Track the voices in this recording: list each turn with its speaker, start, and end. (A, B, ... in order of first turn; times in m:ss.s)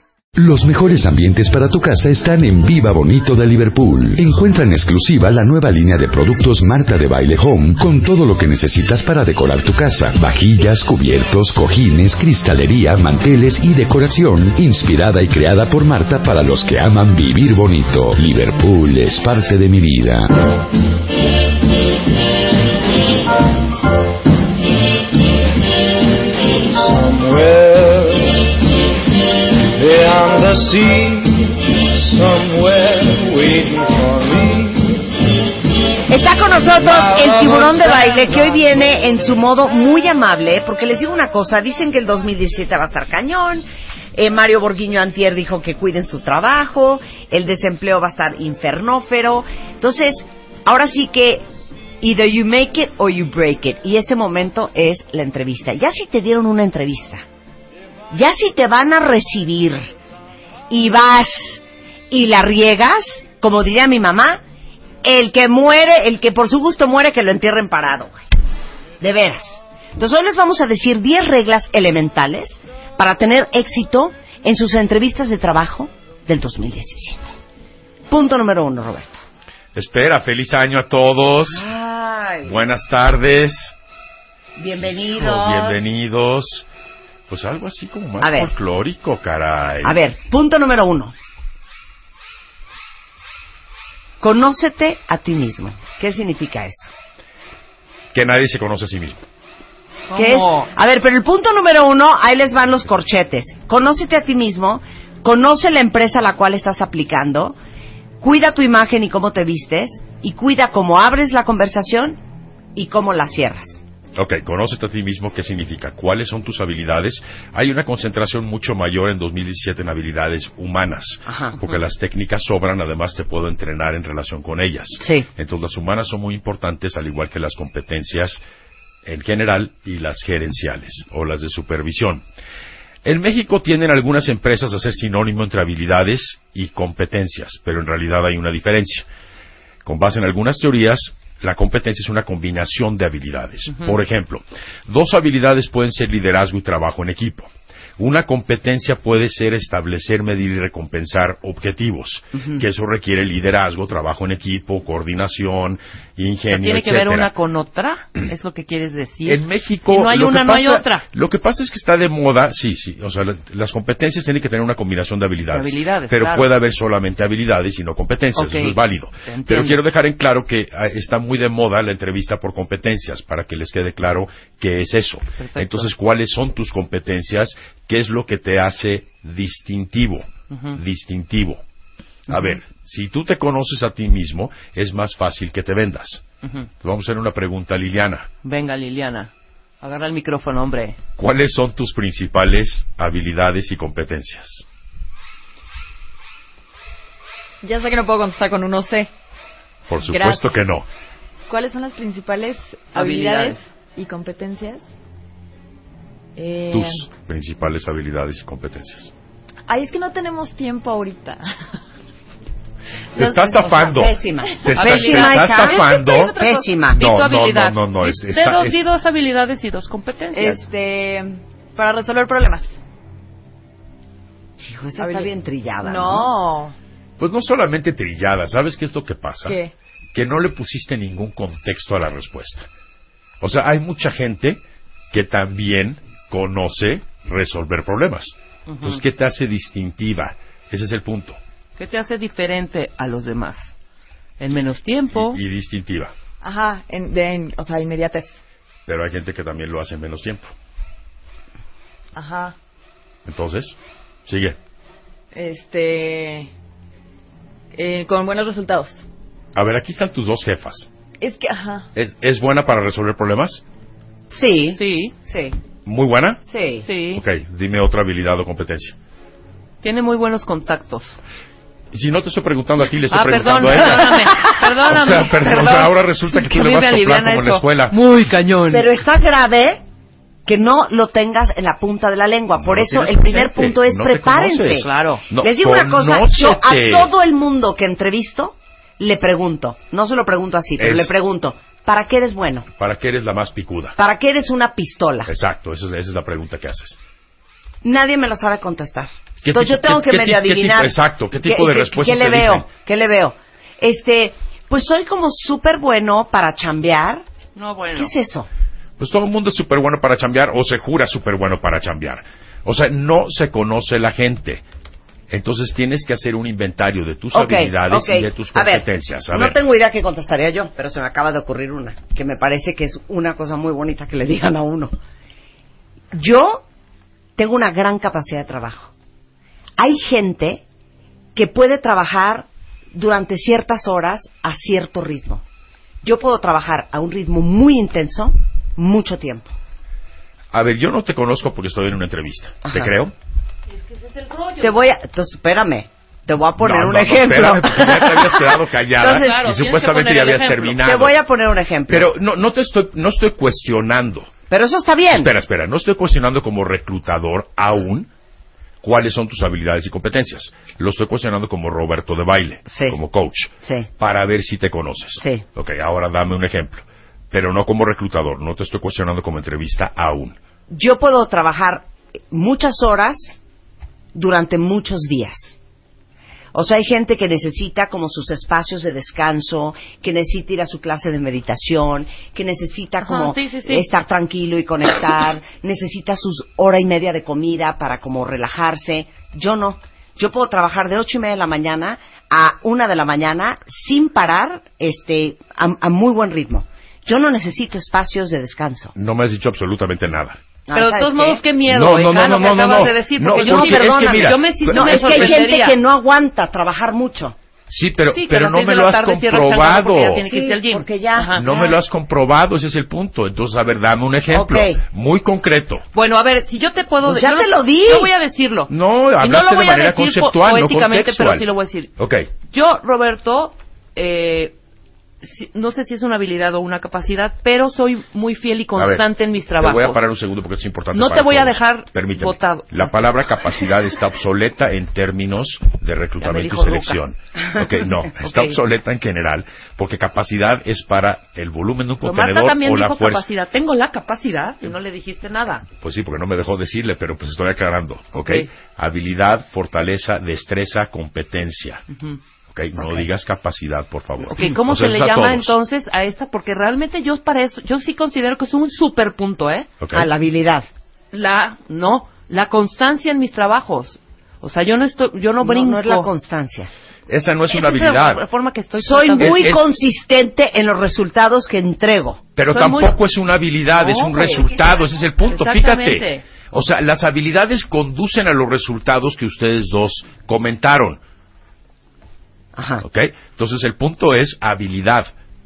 0:00.4-0:20.3 A
0:26.5-0:28.5 B
0:29.7-0:35.1 B
0:36.1-0:51.4 C
0:36.6-0:39.4 B
0:52.0-0:57.2 C
0:58.1-0:59.9 C
1:00.7-1:04.4 C
1:05.0-1:08.2 C
1:09.0-1:17.2 C
1:18.1-1:19.2 C
1:19.7-1:21.7 D
1:21.5-1:22.6 C
1:22.4-1:23.8 D
1:24.6-1:25.8 C
1:24.7-1:26.6 D
1:27.3-1:30.0 D
1:28.2-1:28.5 C
1:29.8-1:31.1 C
1:34.2-1:36.9 C
1:38.1-1:39.2 D
1:40.1-1:40.6 E
1:40.1-1:47.6 C
1:48.2-1:52.2 C
1:52.8-1:53.8 C
1:54.1-2:08.4 D
2:01.3-2:01.6 C
2:05.0-2:05.3 C
2:09.0-2:12.2 D
2:13.0-2:19.1 D
2:19.8-2:37.3 D
2:36.5-2:41.0 E
2:39.2-3:01.6 D
2:45.5-2:46.5 E
2:48.3-2:49.8 E
2:55.4-2:55.9 E
3:00.5-3:00.8 E
3:02.3-3:06.2 D
3:02.3-3:02.6 E
3:06.8-3:08.3 D
3:08.4-3:09.3 E
3:09.8-3:11.0 E
3:11.2-3:14.6 D
3:17.6-3:19.1 F
3:19.9-3:20.8 D
3:20.0-3:20.4 F
3:21.5-3:24.8 F
3:22.9-3:23.6 E
3:26.4-3:27.0 F
3:26.7-3:29.1 D
3:29.7-3:31.6 F
3:33.2-3:34.0 F
3:33.2-3:36.4 D
3:33.8-3:37.0 C
3:34.7-3:40.6 E
3:37.0-3:38.8 D
3:40.3-3:42.7 F
3:44.6-3:46.3 C
3:45.0-3:46.8 F
3:47.2-3:49.6 D
3:49.4-3:49.7 F
3:50.1-3:52.7 D
3:53.4-4:01.4 D
3:58.7-3:59.0 E
4:01.8-4:03.7 E
4:04.4-4:05.4 E
4:05.1-4:06.1 D
4:06.4-4:08.4 F
4:08.9-4:10.5 D
4:12.1-4:12.5 F
4:13.2-4:14.6 D
4:15.3-4:16.5 F
4:17.7-4:19.0 F
4:19.5-4:20.9 D
4:21.2-4:21.9 F
4:21.9-4:23.6 D
4:24.3-4:25.6 C
4:24.7-4:25.1 E
4:25.8-4:26.4 D
4:26.5-4:26.9 C
4:26.8-4:27.2 E
4:27.1-4:29.0 D
4:29.8-4:31.2 E
4:31.9-4:38.0 D
4:33.1-4:38.9 E
4:38.7-4:39.8 C
4:40.4-4:52.7 C
4:42.6-4:47.1 D
4:44.7-4:45.2 E
4:50.8-4:51.2 D
4:52.8-4:54.0 D
4:54.0-4:55.3 C
4:55.2-4:57.0 D
4:57.8-5:07.2 C
4:59.4-5:02.7 D
5:07.5-5:08.1 E
5:07.9-5:08.5 C
5:09.0-5:14.6 D
5:15.3-5:19.6 D
5:17.3-5:24.9 C
5:26.1-5:26.6 C
5:27.4-5:28.9 C
5:29.8-5:30.6 C
5:31.3-5:35.4 C
5:36.0-5:39.5 C
5:40.5-5:43.1 D
5:43.7-5:44.8 E
5:44.6-5:48.5 C
5:46.6-5:51.2 D
5:49.0-5:50.8 E
5:50.8-5:52.1 C
5:51.9-5:54.3 D
5:54.5-5:55.3 C
5:55.1-5:58.1 D
5:58.8-6:10.4 D
6:02.7-6:03.0 C
6:10.7-6:13.4 C
6:14.1-6:15.6 C
6:16.5-6:38.9 C
6:23.0-6:23.9 E
6:38.9-6:40.4 D
6:40.7-6:41.4 C
6:40.7-6:45.8 E
6:41.6-6:45.5 D
6:43.3-6:47.4 C
6:47.7-6:50.2 D
6:48.1-6:51.5 E
6:50.2-6:51.8 C
6:51.3-6:55.8 D
6:54.3-6:54.8 C
6:55.9-7:01.9 E
6:57.0-6:58.1 C
6:58.7-7:01.4 D
7:02.0-7:02.3 D
7:02.5-7:04.6 E
7:05.2-7:10.0 E
7:08.8-7:09.0 D
7:09.6-7:23.2 D
7:10.9-7:13.0 E
7:16.2-7:17.0 E
7:18.2-7:18.6 E
7:22.0-7:25.7 E
7:25.8-7:31.8 D
7:28.2-7:28.5 E
7:31.9-7:32.2 E
7:32.5-7:35.5 D
7:34.2-7:39.7 E
7:39.8-7:40.1 D
7:39.9-7:40.7 C
7:41.1-7:46.1 E
7:45.4-7:46.7 C
7:47.1-7:48.2 D
7:47.5-7:49.6 E
7:48.8-7:52.2 C
7:49.2-7:49.7 D
7:52.4-8:01.0 D
7:52.5-7:53.0 E
7:53.7-7:56.2 E
8:02.5-8:02.8 C
8:02.8-8:05.1 D